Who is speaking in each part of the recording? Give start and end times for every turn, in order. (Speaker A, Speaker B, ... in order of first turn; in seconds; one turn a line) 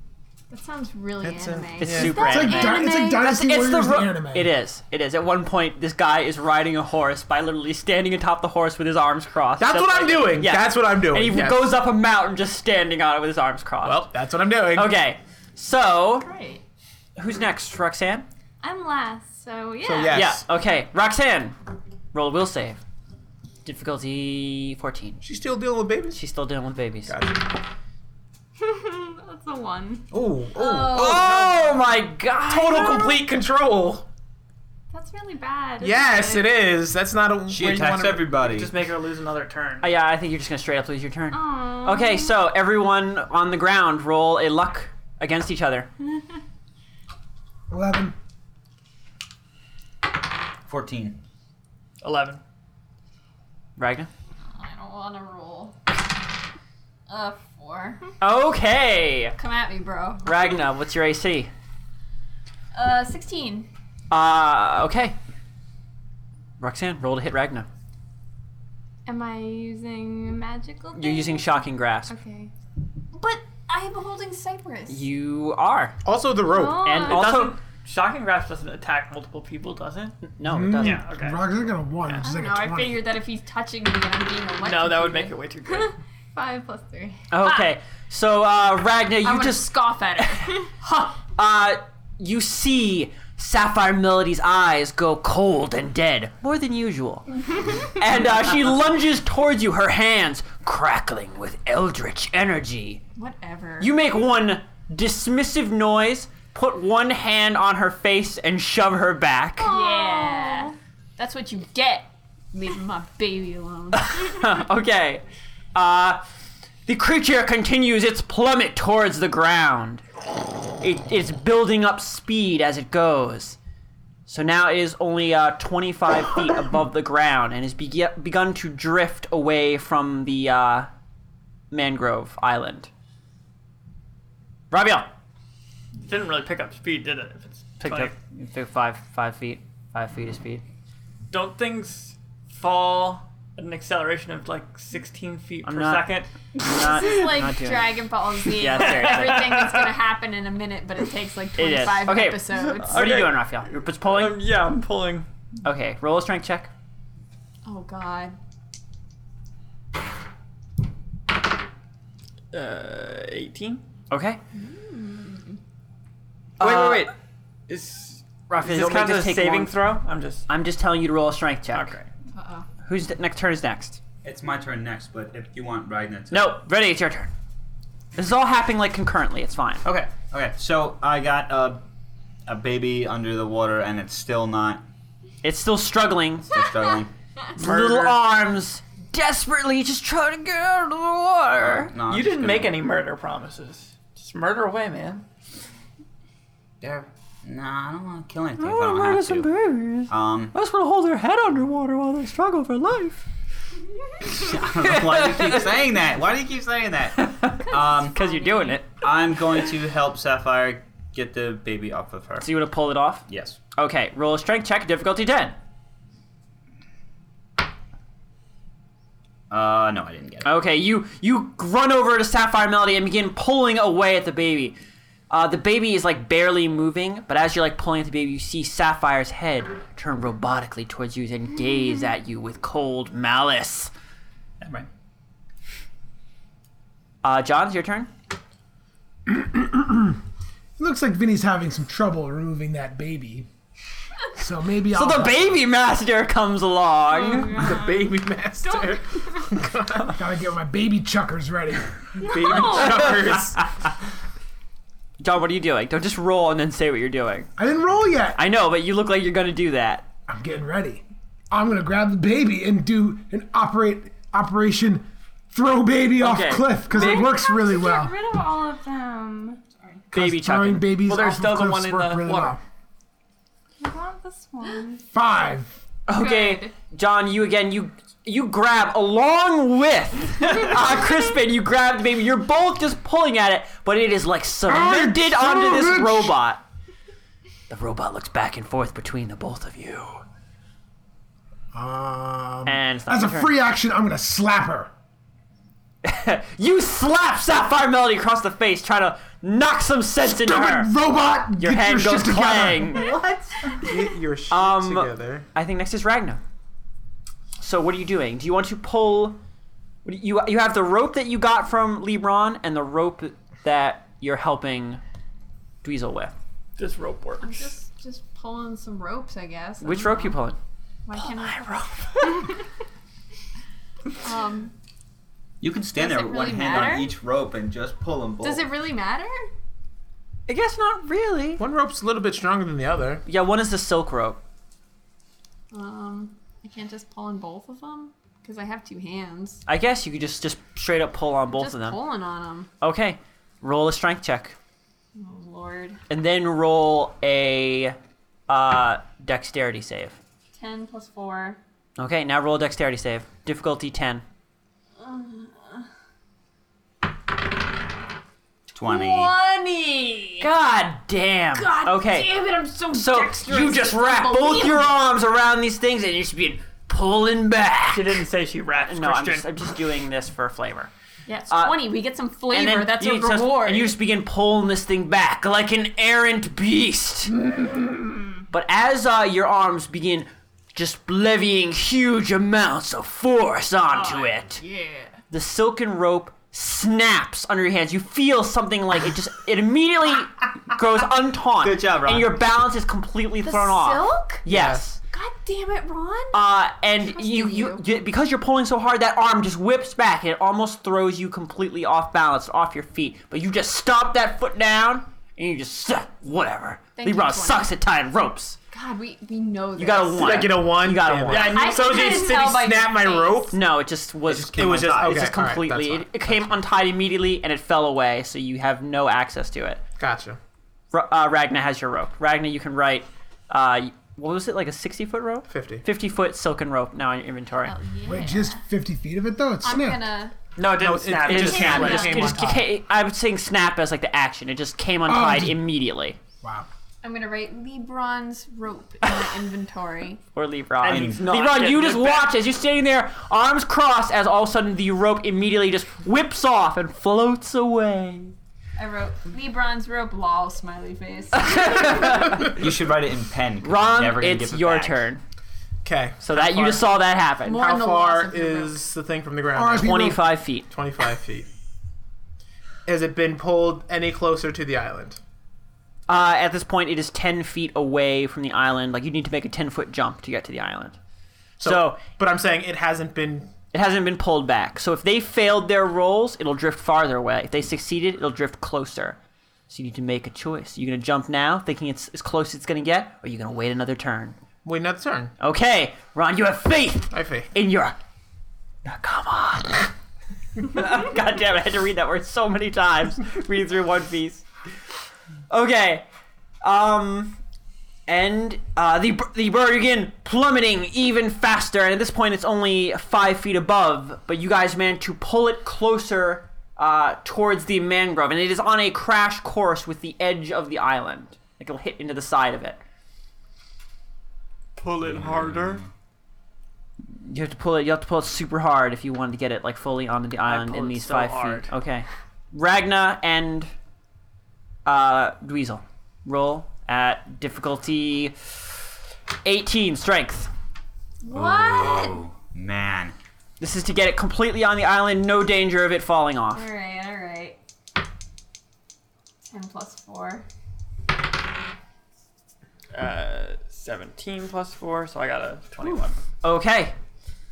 Speaker A: 0.5-3.2
Speaker B: 1.2-2.5
Speaker C: 1.8-14.1
Speaker D: 2.2-4.5
Speaker B: 9.6-11.8
Speaker B: 13.8-14.9
Speaker C: 14.7-16.3
Speaker A: 16.2-16.6
Speaker C: 17.2-18.2
Speaker E: 18.6-20.3
Speaker B: 19.8-20.4
Speaker C: 20.1-21.6
Speaker C: 22.1-22.8
Speaker C: 23.6-25.2
Speaker B: 25.2-26.2
Speaker C: 26.1-27.1
Speaker B: 27.1-27.5
Speaker E: 28.6-30.1
Speaker B: 30.1-34.0
Speaker A: 30.6-31.4
Speaker C: 30.9-33.1
Speaker E: 34.9-36.6
Speaker B: 35.8-38.3
Speaker F: 37.5-38.8
Speaker G: 38.3-39.9
Speaker C: 39.8-45.9
Speaker E: 41.3-42.4
Speaker D: 47.7-48.1
Speaker F: 50.7-51.2
Speaker G: 52.0-52.4
Speaker C: 53.8-54.1
Speaker A: 54.5-55.8
Speaker A: 57.1-58.0
Speaker C: 58.2-59.4
Speaker A: 59.4-60.3
Speaker C: 60.2-61.5
Speaker A: 62.7-63.7
Speaker C: 64.1-65.2
Speaker C: 66.6-67.7
Speaker E: 69.0-72.5
Speaker C: 70.9-72.1
Speaker A: 73.1-75.1
Speaker C: 74.9-76.0
Speaker B: 76.0-76.9
Speaker E: 76.4-77.3
Speaker C: 76.8-77.6
Speaker G: 77.0-80.2
Speaker C: 80.2-81.0
Speaker D: 80.5-83.1
Speaker G: 80.8-81.4
Speaker A: 82.2-85.3
Speaker G: 84.6-85.9
Speaker E: 85.7-87.2
Speaker C: 87.3-90.3
Speaker A: 87.4-87.7
Speaker A: 89.2-91.2
Speaker C: 91.3-97.3
Speaker C: 97.8-103.0
Speaker A: 103.2-103.9
Speaker C: 103.8-109.7
Speaker E: 109.6-110.7
Speaker A: 109.7-114.4
Speaker C: 113.9-115.2
Speaker C: 115.7-116.2
Speaker C: 116.9-120.0
Speaker C: 120.8-123.6
Speaker C: 124.3-130.9
Speaker C: 131.7-132.9
Speaker C: 134.7-135.1
Speaker G: 136.0-138.1
Speaker C: 137.8-140.6
Speaker G: 141.3-146.3
Speaker C: 145.6-146.1
Speaker A: 146.6-153.1
Speaker C: 146.6-149.6
Speaker G: 148.7-149.9
Speaker C: 151.6-154.4
Speaker G: 152.5-155.3
Speaker C: 155.6-156.7
Speaker A: 157.6-158.3
Speaker G: 162.5-163.8
Speaker C: 164.1-164.4
Speaker A: 164.5-165.6
Speaker C: 166.6-167.1
Speaker G: 166.6-167.1
Speaker G: 167.7-170.4
Speaker C: 168.6-169.8
Speaker C: 170.5-172.0
Speaker G: 171.7-172.1
Speaker A: 172.3-172.7
Speaker C: 172.8-174.0
Speaker F: 174.2-176.5
Speaker C: 176.3-177.3
Speaker C: 178.2-179.8
Speaker F: 179.8-181.8
Speaker F: 182.5-184.8
Speaker C: 185.4-186.5
Speaker F: 186.5-187.1
Speaker G: 187.6-188.2
Speaker C: 187.6-191.9
Speaker F: 191.6-192.8
Speaker G: 192.1-195.2
Speaker F: 196.8-199.5
Speaker C: 198.6-203.2
Speaker F: 200.1-200.5
Speaker F: 204.2-208.2
Speaker C: 204.8-205.7
Speaker C: 207.2-209.0
Speaker A: 208.1-208.8
Speaker F: 208.9-212.5
Speaker C: 212.4-213.2
Speaker F: 213.3-213.6
Speaker C: 213.8-215.6
Speaker F: 219.5-220.5
Speaker C: 220.4-224.8
Speaker C: 225.3-233.9
Speaker F: 234.6-234.9
Speaker C: 237.2-238.1
Speaker D: 239.3-240.2
Speaker D: 240.8-243.5
Speaker D: 244.3-245.6
Speaker C: 244.9-247.6
Speaker E: 247.1-249.5
Speaker B: 247.5-250.2
Speaker D: 250.1-252.3
Speaker E: 252.2-253.4
Speaker B: 252.2-253.6
Speaker C: 255.2-257.5
Speaker D: 257.6-258.4
Speaker C: 258.4-260.1
Speaker D: 260.3-268.2
Speaker C: 266.2-266.8
Speaker E: 266.8-269.6
Speaker C: 270.1-270.9
Speaker D: 270.1-272.6
Speaker G: 271.0-272.6
Speaker E: 273.8-275.0
Speaker D: 275.1-275.7
Speaker C: 276.1-286.6
Speaker E: 276.1-276.7
Speaker D: 284.7-286.4
Speaker C: 287.7-290.2
Speaker D: 291.7-294.9
Speaker C: 292.6-293.5
Speaker C: 296.0-300.9
Speaker D: 300.2-303.1
Speaker C: 301.6-303.1
Speaker F: 302.9-304.0
Speaker B: 303.8-305.4
Speaker C: 304.5-306.4
Speaker C: 307.6-309.4
Speaker C: 310.0-315.0
Speaker C: 315.8-316.4
Speaker G: 316.8-317.7
Speaker A: 317.4-320.4
Speaker C: 319.8-320.6
Speaker A: 321.1-321.7
Speaker C: 321.1-322.4
Speaker A: 324.2-324.7
Speaker F: 325.6-328.7
Speaker A: 325.9-327.2
Speaker A: 328.4-329.3
Speaker C: 330.5-331.6
Speaker B: 331.6-333.2
Speaker C: 333.2-334.4
Speaker A: 335.7-339.6
Speaker C: 339.7-342.0
Speaker A: 341.5-342.7
Speaker C: 342.8-344.6
Speaker A: 345.1-346.0
Speaker C: 346.1-347.9
Speaker C: 348.5-350.2
Speaker A: 350.5-351.6
Speaker C: 352.0-354.2
Speaker A: 355.0-355.9
Speaker F: 358.7-359.3
Speaker A: 358.8-360.5
Speaker C: 360.4-362.3
Speaker A: 361.5-364.9
Speaker C: 362.9-368.2
Speaker G: 367.9-369.7
Speaker C: 368.7-370.9
Speaker A: 371.2-373.9
Speaker C: 371.5-371.8
Speaker C: 372.5-377.4
Speaker C: 378.5-384.6
Speaker A: 383.9-385.1
Speaker C: 385.3-395.0
Speaker F: 391.6-392.4
Speaker A: 393.4-394.4
Speaker B: 394.4-394.8
Speaker A: 395.0-396.4
Speaker C: 396.3-408.6
Speaker A: 397.0-397.8
Speaker A: 406.9-407.7
Speaker A: 408.7-410.5
Speaker C: 409.8-411.7
Speaker B: 410.1-413.6
Speaker A: 411.3-413.5
Speaker C: 413.5-419.8
Speaker F: 414.3-415.4
Speaker B: 414.5-416.5
Speaker B: 420.0-420.4
Speaker C: 420.9-427.7
Speaker B: 425.5-425.9
Speaker A: 427.7-428.6
Speaker E: 427.8-428.2
Speaker D: 428.0-430.1
Speaker A: 429.6-430.3
Speaker G: 430.6-432.3
Speaker B: 430.7-432.7
Speaker C: 431.2-436.2
Speaker E: 431.4-432.3
Speaker D: 435.1-435.6
Speaker D: 436.4-436.7
Speaker A: 437.0-440.2
Speaker C: 440.3-448.3
Speaker F: 440.8-441.3
Speaker G: 441.0-442.3
Speaker A: 448.8-452.4
Speaker C: 451.3-452.5
Speaker F: 452.4-455.1
Speaker C: 453.6-455.2
Speaker B: 455.8-456.9
Speaker C: 456.2-457.7
Speaker A: 457.4-458.8
Speaker B: 457.5-460.1
Speaker D: 459.5-460.2
Speaker C: 459.8-460.7
Speaker B: 460.7-461.5
Speaker B: 462.9-465.2
Speaker C: 466.1-471.0
Speaker B: 471.6-473.5
Speaker C: 471.6-472.0
Speaker C: 473.7-479.2
Speaker C: 479.7-484.4
Speaker B: 484.6-485.3
Speaker C: 485.4-488.0
Speaker B: 487.1-487.5
Speaker C: 488.8-489.9
Speaker C: 490.6-494.4
Speaker C: 495.5-496.0
Speaker C: 496.6-497.4
Speaker C: 498.1-512.8
Speaker G: 514.8-515.8
Speaker F: 515.0-515.9
Speaker C: 517.2-523.7
Speaker G: 520.5-521.7
Speaker C: 524.9-528.8
Speaker C: 529.4-530.5
Speaker A: 531.2-532.2
Speaker F: 531.3-533.1
Speaker C: 533.6-536.7
Speaker A: 536.5-537.6
Speaker A: 539.5-540.4
Speaker G: 542.9-546.2
Speaker C: 546.4-546.9